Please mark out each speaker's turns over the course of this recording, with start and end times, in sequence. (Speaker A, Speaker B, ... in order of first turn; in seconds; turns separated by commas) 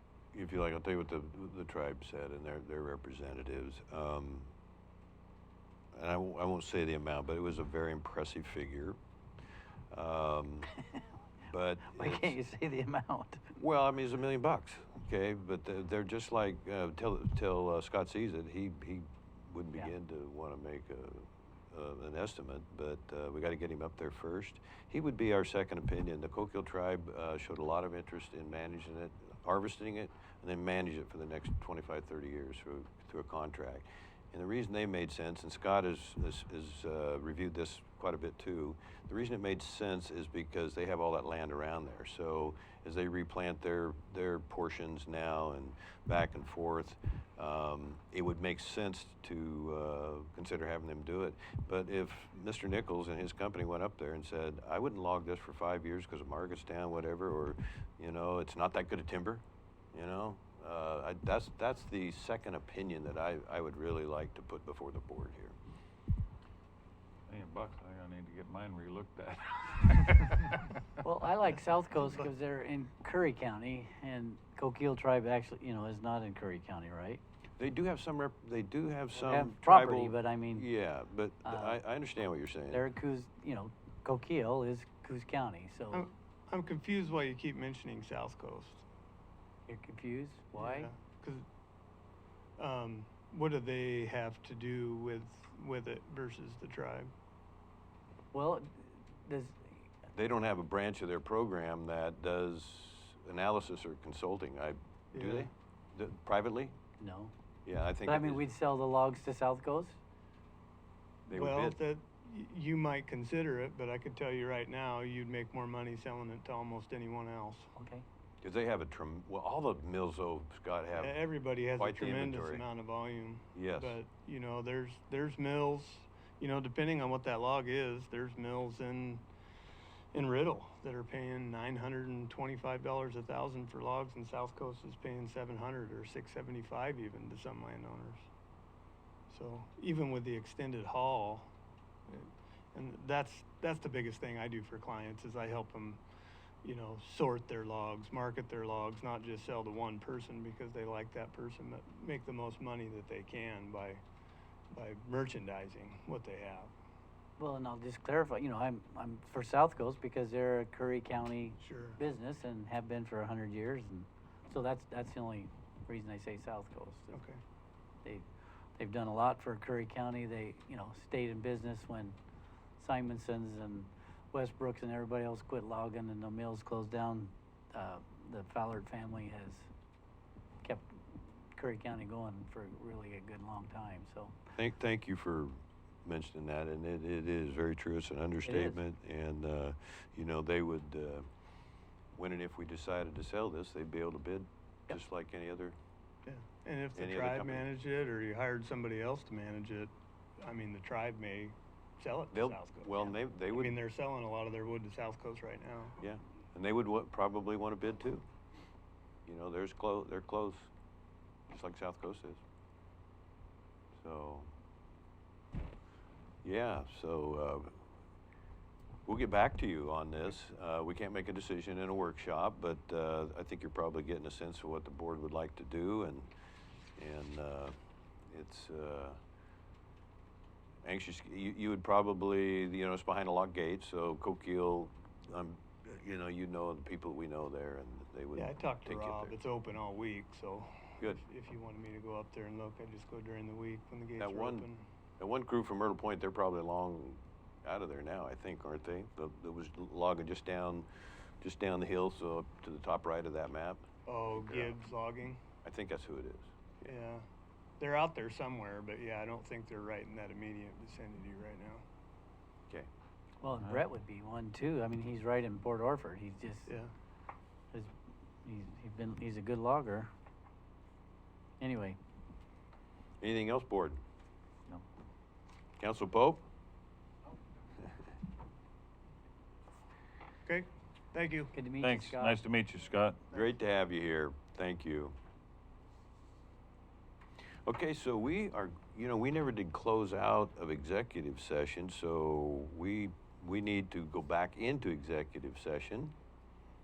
Speaker A: 0.3-4.5, Speaker A: 5.9-9.0, Speaker A: 9.9-10.7, Speaker A: 11.5-12.4, Speaker B: 11.9-13.6, Speaker A: 13.6-65.5, Speaker C: 67.3-70.8, Speaker B: 71.0-77.2, Speaker A: 77.6-82.9, Speaker B: 79.1-80.7, Speaker B: 81.4-81.8, Speaker B: 82.7-86.1, Speaker D: 85.9-88.8, Speaker B: 89.7-90.9, Speaker D: 90.5-91.5, Speaker D: 92.6-97.1, Speaker B: 98.3-99.9, Speaker A: 100.1-106.8, Speaker D: 105.1-105.5, Speaker B: 107.0-107.3, Speaker A: 107.6-108.4, Speaker B: 108.0-110.0, Speaker A: 111.3-111.8, Speaker D: 111.3-117.7, Speaker B: 117.8-118.0, Speaker A: 118.4-121.2, Speaker D: 120.9-129.2, Speaker A: 121.8-122.6, Speaker A: 123.5-124.0, Speaker D: 130.1-138.3, Speaker D: 139.3-141.5, Speaker D: 142.1-146.0, Speaker D: 146.6-154.0, Speaker D: 154.7-156.7, Speaker B: 157.4-167.2, Speaker D: 161.6-162.0, Speaker D: 167.1-167.4, Speaker B: 168.8-172.2, Speaker B: 172.8-179.7, Speaker B: 180.6-184.3, Speaker A: 184.6-191.3, Speaker B: 188.4-188.8, Speaker A: 192.1-195.8, Speaker D: 196.2-206.0, Speaker A: 196.9-197.7, Speaker A: 202.3-203.8, Speaker A: 206.0-208.2, Speaker A: 209.2-210.7, Speaker A: 211.5-212.4, Speaker A: 214.0-214.5, Speaker A: 216.4-217.8, Speaker A: 219.1-226.3, Speaker A: 227.0-227.8, Speaker A: 228.3-229.2, Speaker A: 230.8-239.3, Speaker D: 238.3-244.9, Speaker A: 244.2-244.7, Speaker A: 245.2-250.9, Speaker A: 251.4-253.8, Speaker D: 254.1-255.4, Speaker A: 254.4-254.7, Speaker A: 255.6-256.5, Speaker D: 256.8-257.2, Speaker D: 257.8-261.8, Speaker B: 263.4-266.7, Speaker D: 266.7-266.9, Speaker B: 268.4-270.1, Speaker B: 271.6-272.0, Speaker A: 273.2-274.0, Speaker A: 275.8-276.4, Speaker D: 280.4-281.5, Speaker B: 281.5-282.4, Speaker C: 281.8-283.2, Speaker A: 283.3-285.1, Speaker A: 287.6-296.1